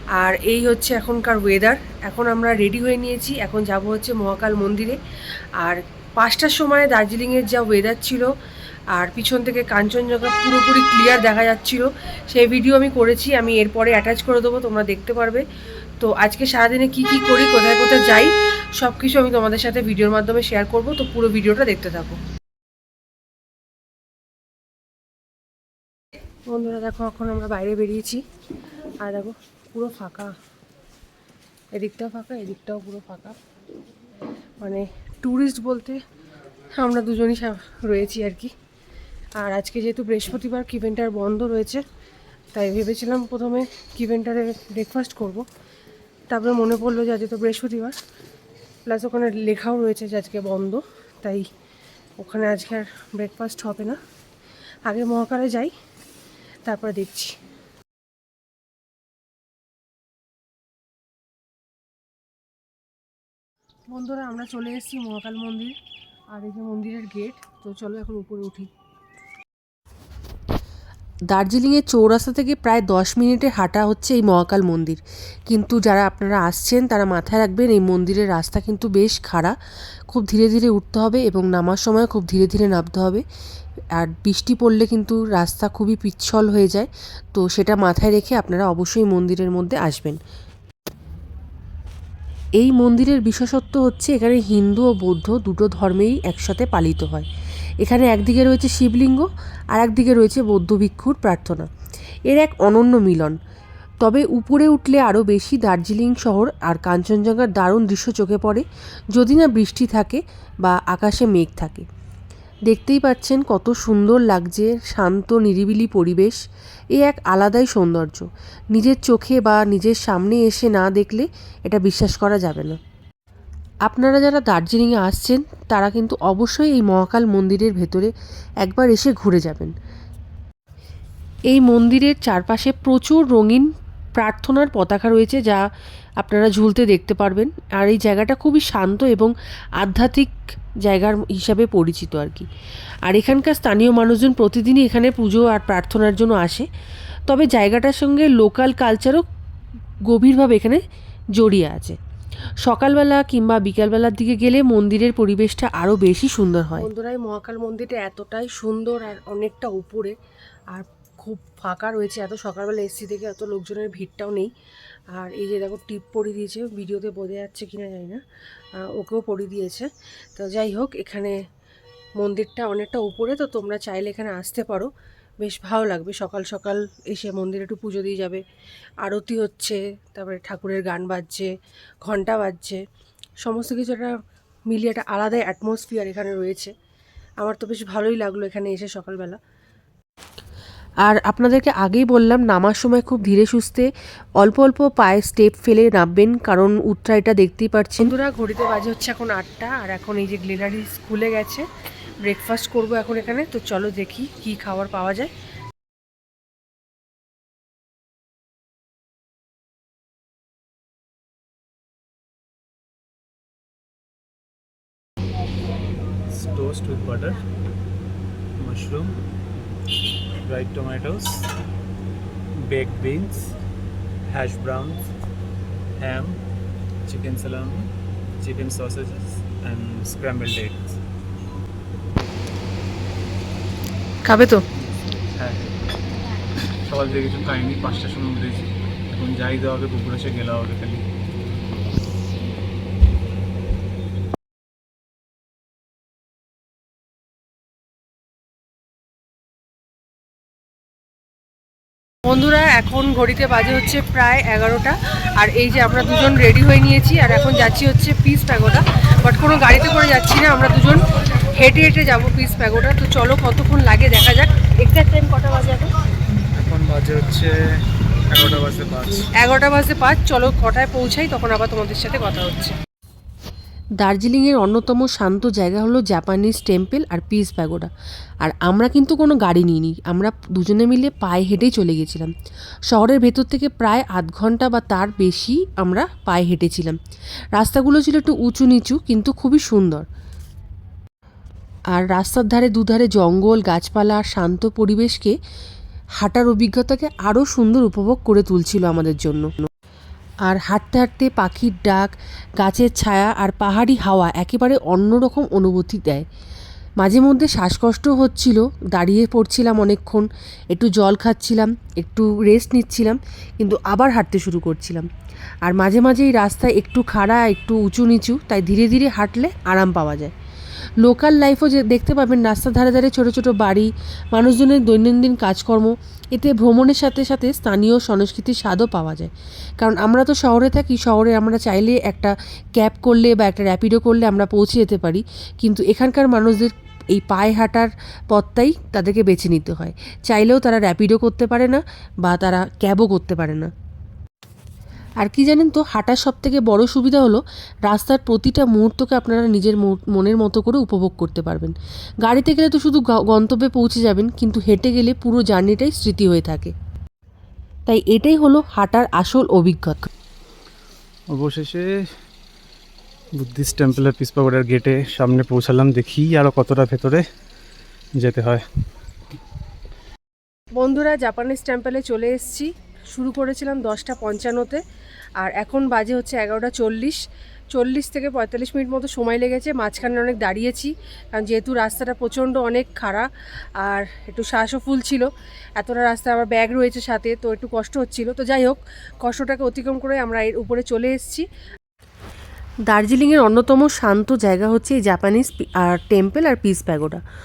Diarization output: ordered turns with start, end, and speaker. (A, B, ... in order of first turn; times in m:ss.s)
0:00.2-0:05.0 A
0:05.6-0:08.3 A
0:08.9-0:15.4 A
0:16.0-0:22.2 A
0:26.5-0:28.2 A
0:29.0-0:30.3 A
0:31.7-0:33.4 A
0:34.6-0:36.0 A
0:36.8-0:38.5 A
0:39.4-0:41.8 A
0:42.5-0:45.5 A
0:46.3-0:48.0 A
0:48.9-0:51.5 A
0:52.2-0:54.0 A
0:54.9-0:55.7 A
0:56.6-0:57.4 A
1:03.9-1:05.8 A
1:06.3-1:08.7 A
1:11.3-1:19.5 B
1:20.1-1:23.2 B
1:24.0-1:30.2 B
1:32.6-1:37.3 B
1:37.8-1:41.7 B
1:42.3-1:43.4 B
1:44.0-1:51.9 B
1:52.7-1:56.4 B
1:57.0-2:02.8 B
2:03.9-2:08.1 B
2:08.6-2:09.7 B
2:11.5-2:15.6 B
2:16.2-2:22.5 B
2:23.1-2:26.7 B
2:27.3-2:29.2 B
2:30.1-2:30.8 B
2:31.4-2:32.0 B
2:32.6-2:36.9 B
2:36.7-2:40.2 A
2:40.7-2:44.5 A
2:45.1-2:48.2 A
2:48.8-2:51.4 A
2:52.2-2:58.4 A
2:59.0-3:01.5 A
3:02.0-3:02.8 A
3:03.4-3:04.2 A
3:04.7-3:06.7 A
3:07.4-3:09.4 A
3:11.0-3:18.1 B
3:18.0-3:21.7 A
3:22.2-3:25.3 A
3:36.3-3:37.4 C
3:38.6-3:39.2 C
3:40.4-3:41.5 C
3:42.6-3:43.6 C
3:44.3-3:45.0 C
3:46.0-3:46.4 C
3:47.0-3:51.0 C
3:54.2-3:54.6 A
3:55.3-3:55.7 C
3:56.8-4:01.1 C
4:12.3-4:25.9 A
4:26.6-4:27.5 C
4:28.3-4:29.3 C
4:29.4-4:32.8 A
4:34.0-4:37.9 B
4:38.4-4:42.3 B
4:42.9-4:47.0 B
4:47.6-4:50.1 B
4:51.9-4:55.3 B
4:56.2-4:59.7 B
5:00.5-5:06.3 B
5:07.0-5:15.1 B
5:15.7-5:20.3 B
5:21.0-5:43.7 B
5:45.2-5:56.7 B
5:57.9-6:00.1 B
6:01.3-6:01.9 C
6:03.4-6:07.2 C
6:08.2-6:08.6 C
6:10.8-6:14.8 A
6:15.4-6:17.2 A
6:17.7-6:31.5 A
6:32.9-6:37.2 B